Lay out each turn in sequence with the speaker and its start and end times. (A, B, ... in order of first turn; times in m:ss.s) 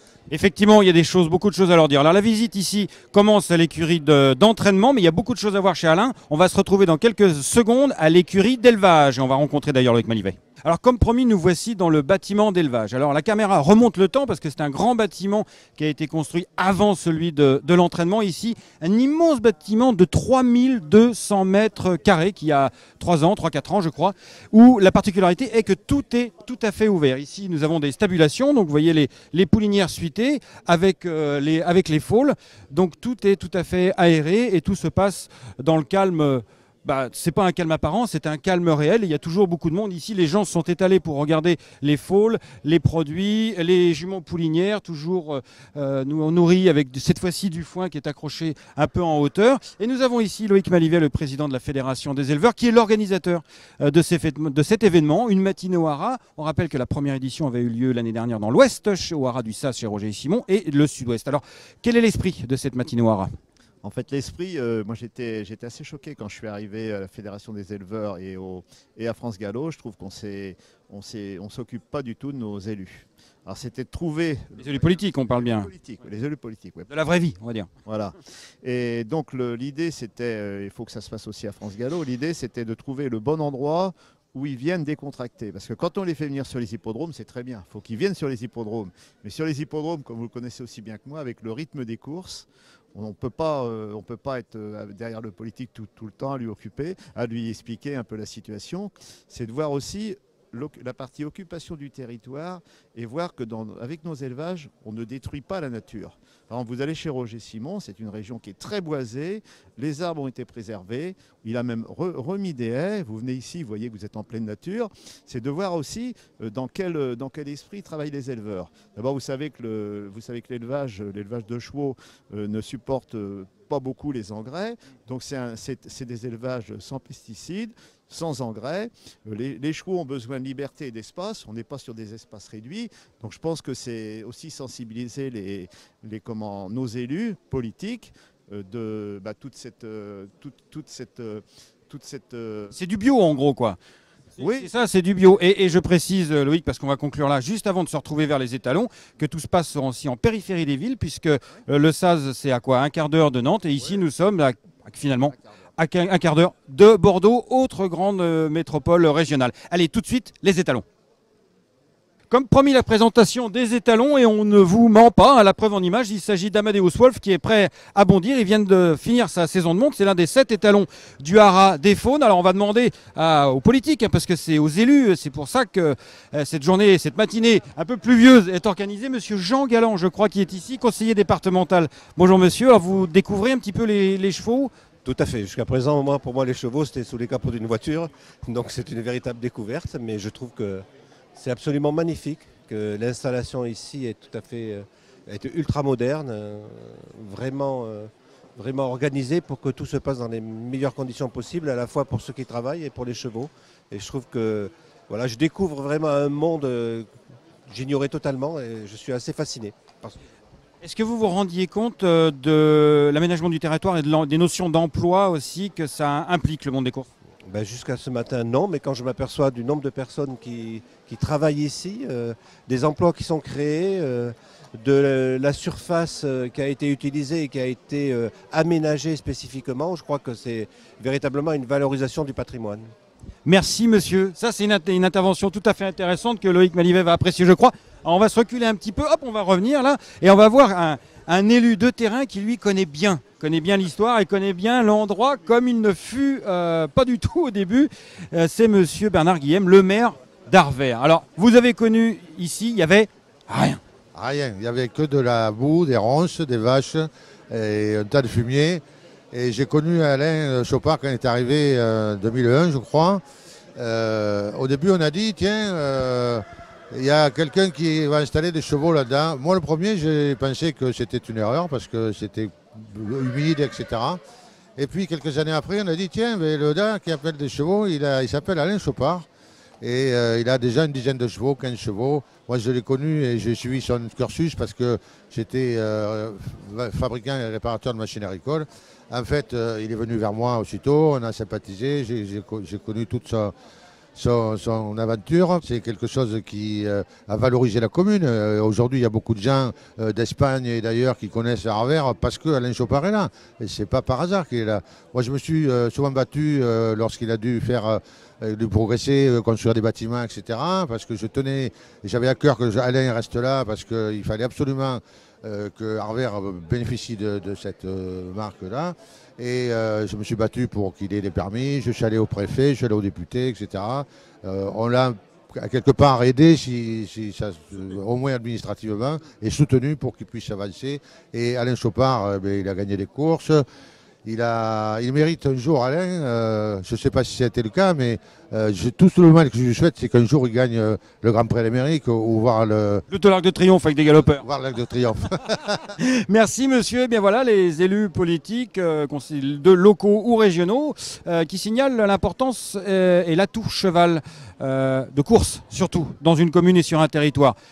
0:00.3-1:03.3 A
1:03.8-1:16.9 B
1:14.6-1:15.7 A
1:16.9-1:17.7 A
1:17.9-2:22.7 B
2:22.7-2:23.8 A
2:24.4-2:24.7 B
2:24.4-2:40.8 A
2:42.3-3:04.7 A
3:05.0-3:10.8 C
3:11.4-3:18.0 C
3:18.6-3:27.0 C
3:27.7-3:30.2 C
3:30.8-3:37.1 A
3:37.5-3:52.8 C
3:53.5-4:13.8 A
4:14.2-4:23.2 D
4:23.8-4:34.2 D
4:34.8-4:39.3 D
4:39.8-4:53.5 D
4:54.2-5:33.6 D
5:34.2-5:43.0 D
5:43.1-5:44.4 A
5:44.4-5:45.8 D
5:45.7-5:57.6 A